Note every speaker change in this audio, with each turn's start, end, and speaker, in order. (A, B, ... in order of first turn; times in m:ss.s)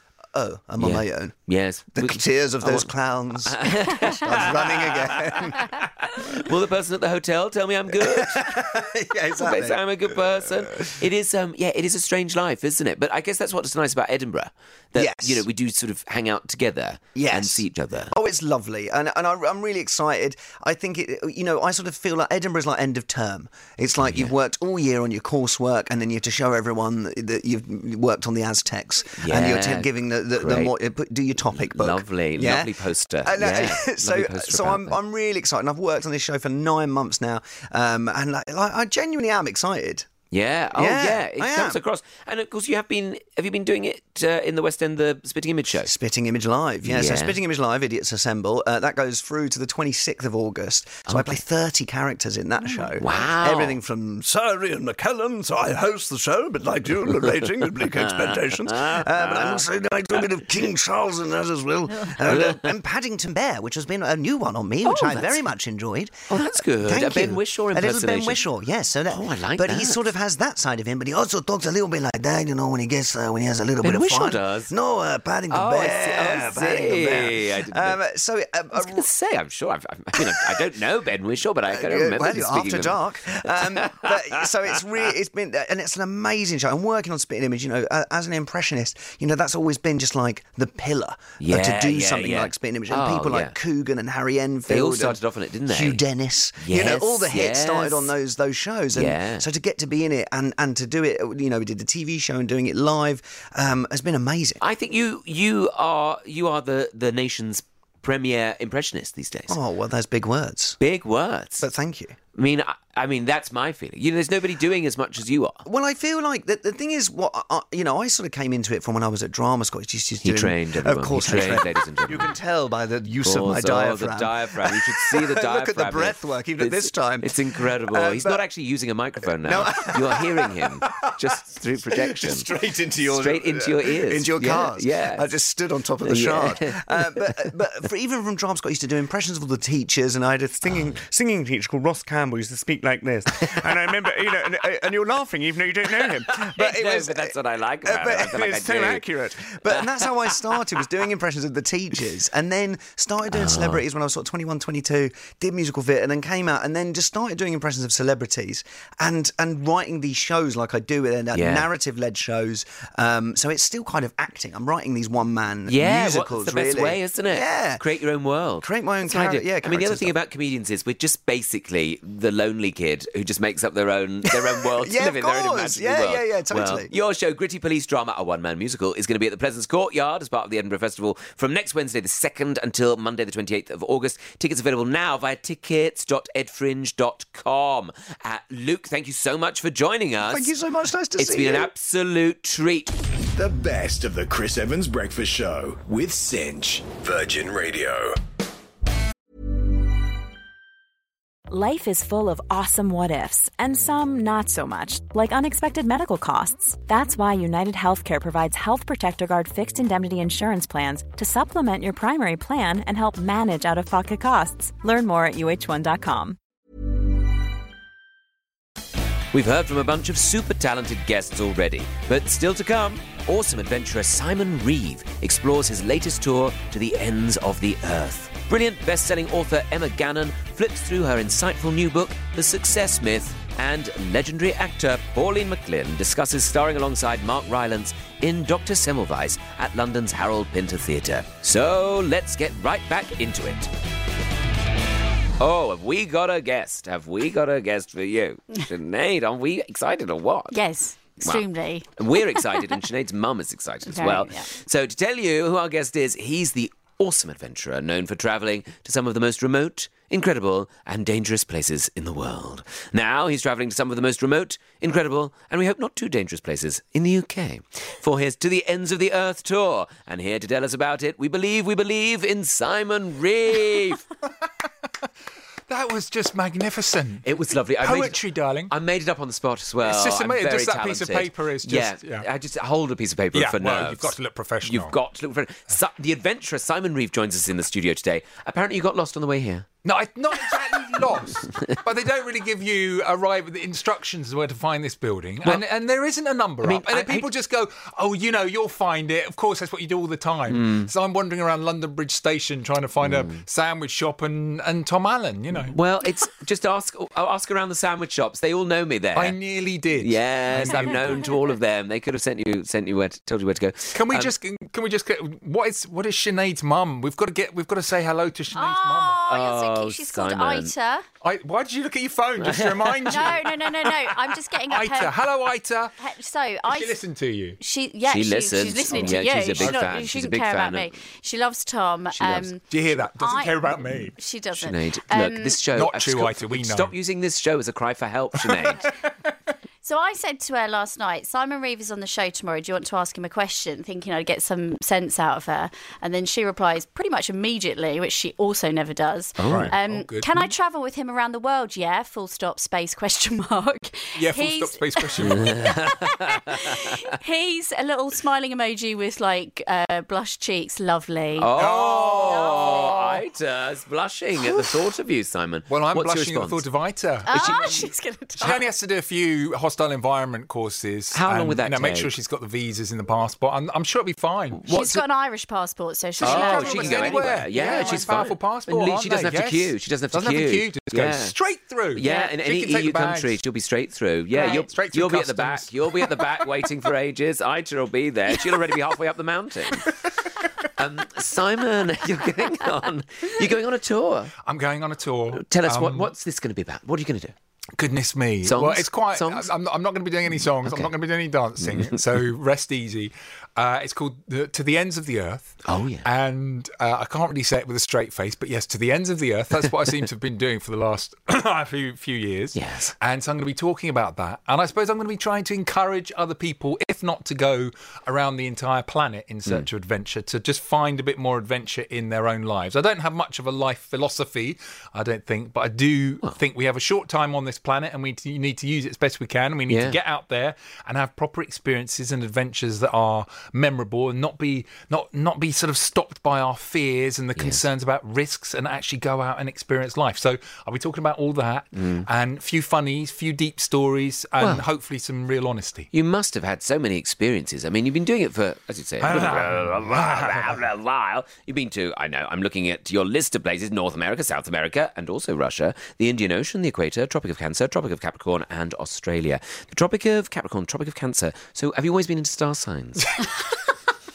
0:00.3-0:01.3 A
0:00.8-0:02.9 B
0:01.9-0:05.8 A
0:03.4-0:08.7 B
0:07.9-0:10.9 A
0:09.3-0:18.1 B
0:14.9-0:15.4 A
0:17.1-0:40.1 A
0:24.0-0:24.3 B
0:29.2-0:30.7 B
0:31.5-0:35.0 B
0:40.3-0:45.9 B
0:40.7-0:41.8 A
0:45.8-1:19.0 A
0:46.8-0:47.4 B
0:51.1-0:51.4 B
0:52.8-0:53.8 B
0:58.5-0:59.6 B
1:02.2-1:02.6 B
1:04.8-1:05.4 B
1:06.3-1:08.4 B
1:09.1-1:10.0 B
1:13.8-1:14.7 B
1:15.5-1:18.0 B
1:18.7-1:24.7 B
1:20.2-1:20.7 A
1:21.7-1:35.2 A
1:31.4-1:33.6 B
1:34.7-1:36.0 B
1:35.7-1:44.6 A
1:36.6-1:38.1 B
1:38.9-1:39.4 B
1:44.6-1:49.6 B
1:49.5-1:50.8 A
1:50.8-1:51.7 B
1:51.6-1:52.2 A
1:52.3-1:55.6 B
1:55.6-2:08.4 A
2:00.2-2:02.3 B
2:03.2-2:12.5 B
2:09.4-2:10.7 A
2:11.9-2:47.8 A
2:13.0-2:15.3 B
2:16.0-2:17.5 B
2:26.0-2:29.0 B
2:29.7-2:30.3 B
2:33.3-2:33.8 B
2:41.3-2:41.7 B
2:45.7-3:10.5 B
2:48.6-2:50.2 A
2:54.3-2:56.9 A
3:10.3-3:11.7 A
3:11.2-3:12.9 B
3:13.3-3:18.2 C
3:21.5-3:36.4 D
3:39.3-4:03.7 B
4:05.4-4:10.6 B
4:10.5-4:12.8 E
4:11.1-4:11.4 B
4:12.0-4:34.0 B
4:13.9-4:14.5 E
4:35.7-4:37.3 F
4:37.2-4:49.7 B
4:37.8-4:38.7 F
4:39.8-4:42.3 F
4:43.3-4:45.0 F
4:49.8-5:05.8 F
4:56.6-4:57.3 B
5:00.5-5:00.9 B
5:03.0-5:03.4 B
5:05.5-5:09.4 B
5:09.1-5:11.3 F
5:10.0-5:14.3 B
5:10.6-5:11.3 E
5:13.9-5:19.3 F
5:18.5-5:21.0 E
5:19.3-5:20.7 B
5:21.2-5:25.9 F
5:22.4-5:23.4 B
5:23.0-5:25.2 E
5:26.0-5:27.0 E
5:26.7-5:27.6 F
5:27.6-5:35.6 E
5:28.1-5:30.9 B
5:28.9-5:30.0 F
5:32.1-5:32.5 B
5:32.7-5:34.2 F
5:34.5-5:38.9 B
5:35.7-5:36.9 F
5:38.3-5:38.8 F
5:39.8-6:01.5 E
5:49.4-5:49.7 B
5:49.4-5:50.5 F
5:54.2-5:55.6 F
5:55.2-5:57.0 B
6:01.4-6:06.6 B
6:01.5-6:03.2 F
6:02.3-6:02.9 E
6:05.7-6:14.9 F
6:07.2-6:08.7 E
6:07.3-6:07.8 B
6:11.1-6:12.1 B
6:14.5-6:15.0 B
6:14.6-6:18.4 E
6:16.2-6:23.3 F
6:16.2-6:21.3 B
6:21.9-6:30.0 B
6:22.0-6:22.3 E
6:24.3-6:26.6 F
6:24.4-6:24.7 E
6:30.8-6:34.3 B
6:34.4-6:36.1 F
6:35.3-6:37.3 B
6:37.8-7:25.9 F
6:38.4-6:39.5 B
6:40.5-6:40.9 B
6:41.6-6:42.0 B
6:45.6-6:46.1 B
6:52.5-6:52.9 B
7:09.7-7:10.0 B
7:17.4-7:17.6 B
7:21.8-7:22.1 B
7:24.4-7:24.6 B
7:25.9-7:43.1 B
7:29.0-7:30.6 F
7:43.0-7:43.4 F